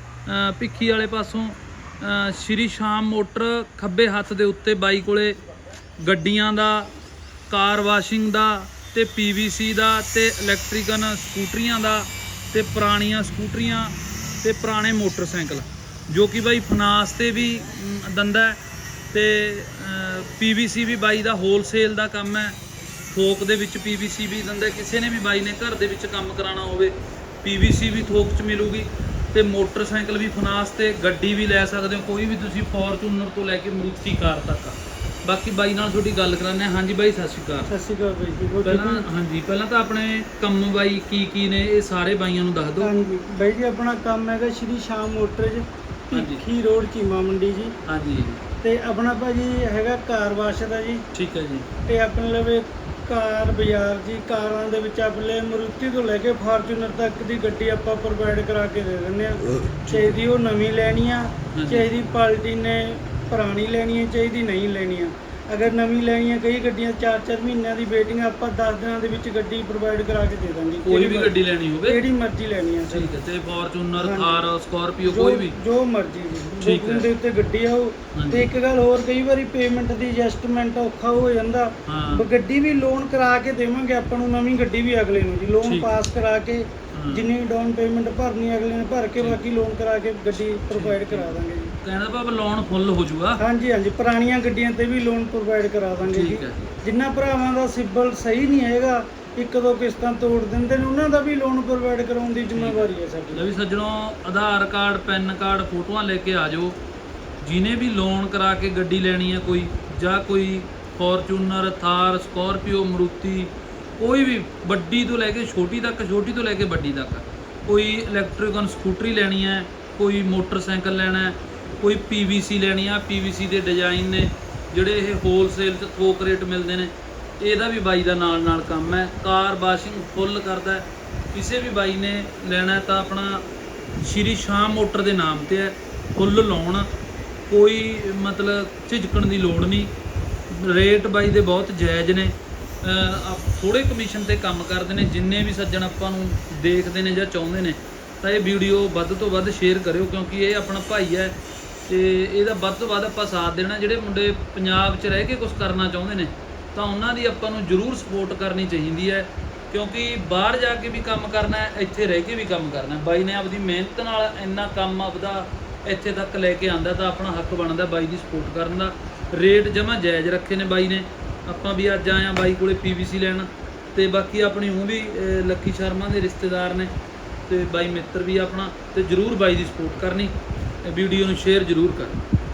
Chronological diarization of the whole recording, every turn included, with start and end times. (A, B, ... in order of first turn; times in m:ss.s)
0:00.2-0:05.4 A
0:06.0-0:06.9 A
0:07.5-0:18.6 A
0:19.1-0:22.5 A
0:23.1-0:37.7 A
0:37.7-0:39.0 B
0:38.6-0:42.9 A
0:42.8-0:47.7 B
0:46.1-0:46.4 A
0:47.8-0:48.4 A
0:48.6-0:51.1 B
0:51.1-0:51.7 A
0:51.8-1:13.1 B
0:59.8-1:00.2 A
1:01.5-1:01.9 A
1:10.8-1:12.0 A
1:12.9-1:15.6 A
1:14.0-1:14.4 B
1:15.1-1:31.7 B
1:16.6-1:17.1 A
1:18.1-1:18.5 A
1:21.8-1:22.2 A
1:25.6-1:25.9 A
1:26.9-1:27.3 A
1:30.7-1:33.4 A
1:33.4-1:43.4 B
1:36.0-1:36.7 A
1:42.6-1:46.8 A
1:47.4-2:13.4 A
2:14.0-2:16.9 A
2:17.5-2:19.9 A
2:20.5-2:31.4 A
2:31.9-2:56.9 A
2:57.5-3:00.3 A
3:00.8-3:02.2 A